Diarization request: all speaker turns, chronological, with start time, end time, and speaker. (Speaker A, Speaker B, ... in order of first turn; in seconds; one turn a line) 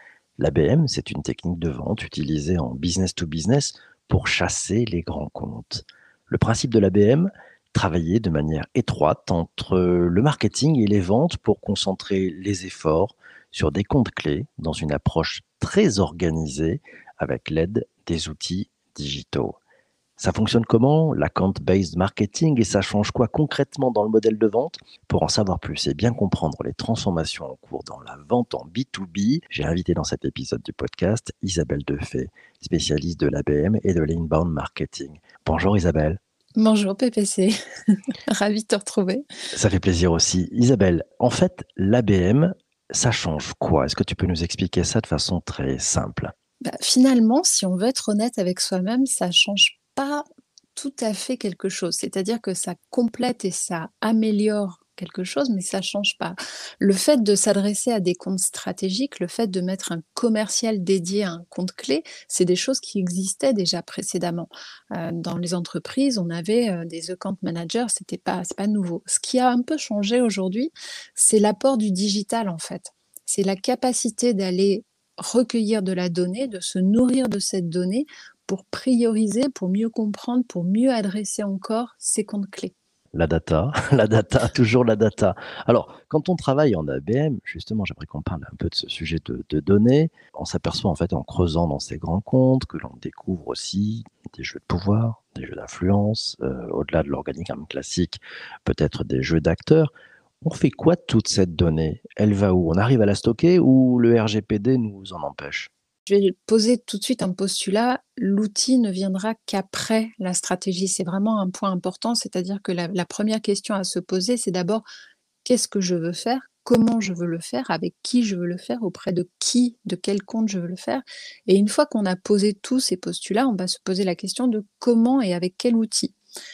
Speaker A: 0.4-19.6
Speaker A: 20.2-36.2
Speaker B: 36.6-39.2
Speaker A: 39.5-46.3
Speaker B: 46.6-50.2
Speaker B: 50.8-82.7
Speaker A: 83.1-105.7
Speaker B: 106.1-114.8
Speaker B: 115.4-126.1